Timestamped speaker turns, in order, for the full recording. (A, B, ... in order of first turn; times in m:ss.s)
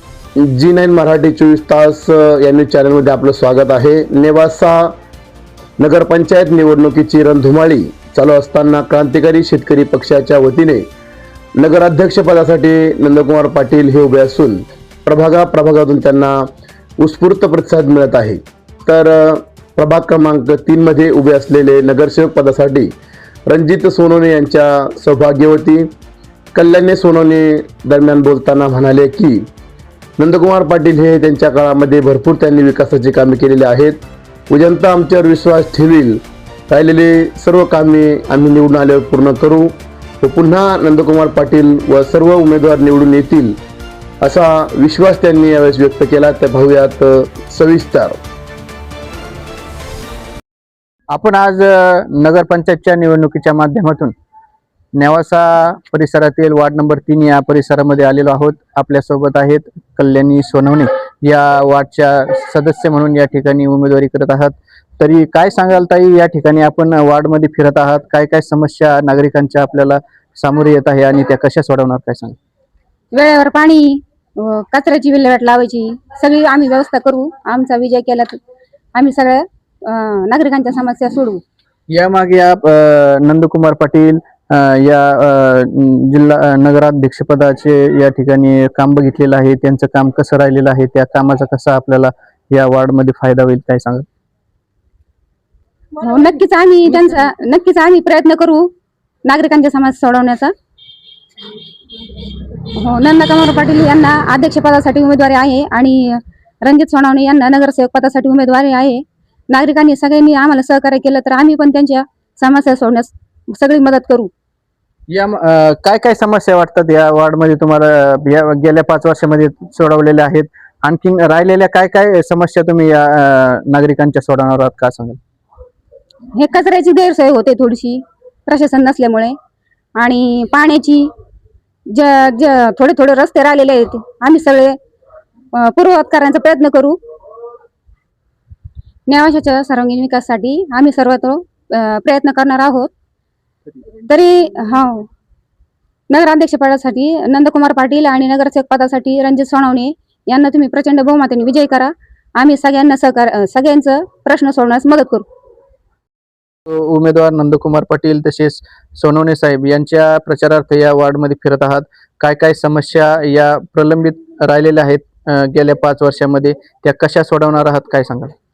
0:00.4-0:05.0 A
0:05.8-0:10.9 A
0:11.6-0:16.5 A
0:17.0-0:22.9 A
0:23.5-0:25.9 A
0:26.5-0:29.5 A
0:30.2-0:43.6 A
0:44.2-0:48.2 A
0:51.1-0:54.1 B
0:55.0-1:12.4 B
1:13.1-1:18.4 C
1:19.0-1:21.4 C
1:21.9-1:34.0 B
1:36.0-1:38.7 C
1:39.2-1:40.5 C
1:42.8-1:54.3 C
1:55.1-2:05.2 B
2:06.3-2:09.3 C
2:10.0-2:11.1 C
2:11.9-2:14.8 C
2:15.5-2:17.0 C
2:19.1-2:22.9 C
2:24.0-2:25.1 C
2:26.1-2:35.2 C
2:36.7-2:48.3 B